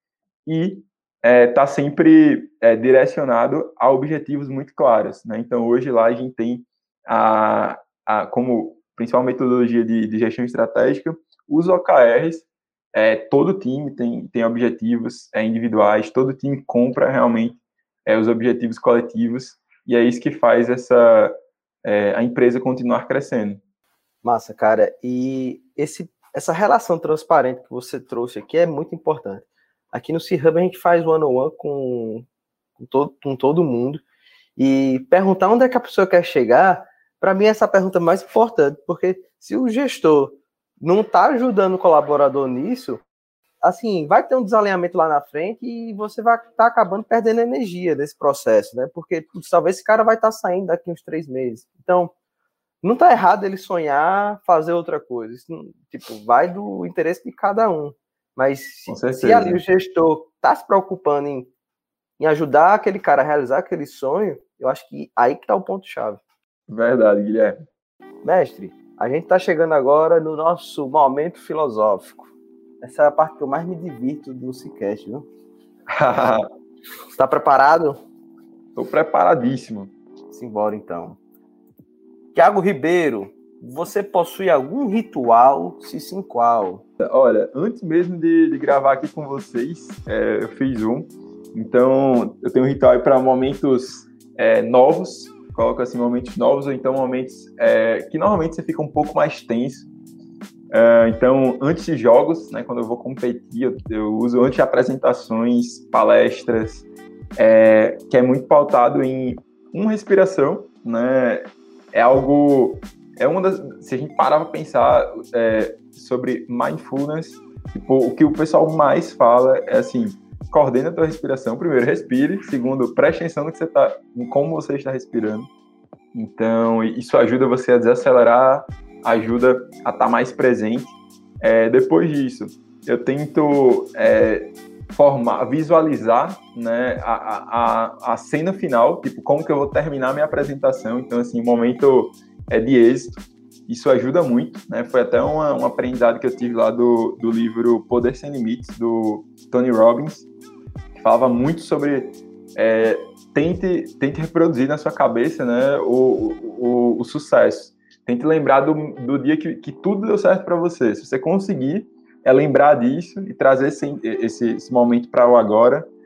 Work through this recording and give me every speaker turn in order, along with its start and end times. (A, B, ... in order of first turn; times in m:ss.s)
0:00.5-0:23.6 A
0:24.2-0:32.3 B
0:32.8-0:34.0 B
0:34.6-0:43.0 B
0:43.6-0:52.1 B
0:52.8-1:01.5 B
0:58.9-0:59.6 A
1:02.2-1:06.2 B
1:06.7-1:07.6 A
1:08.2-1:15.3 B
1:15.9-1:16.4 A
1:17.2-1:18.0 B
1:18.8-1:19.9 A
1:20.3-1:21.2 B
1:22.3-1:26.8 B
1:27.0-1:39.9 A
1:40.7-1:46.9 A
1:47.4-2:05.5 A
2:06.1-2:30.3 A
2:31.0-2:45.9 A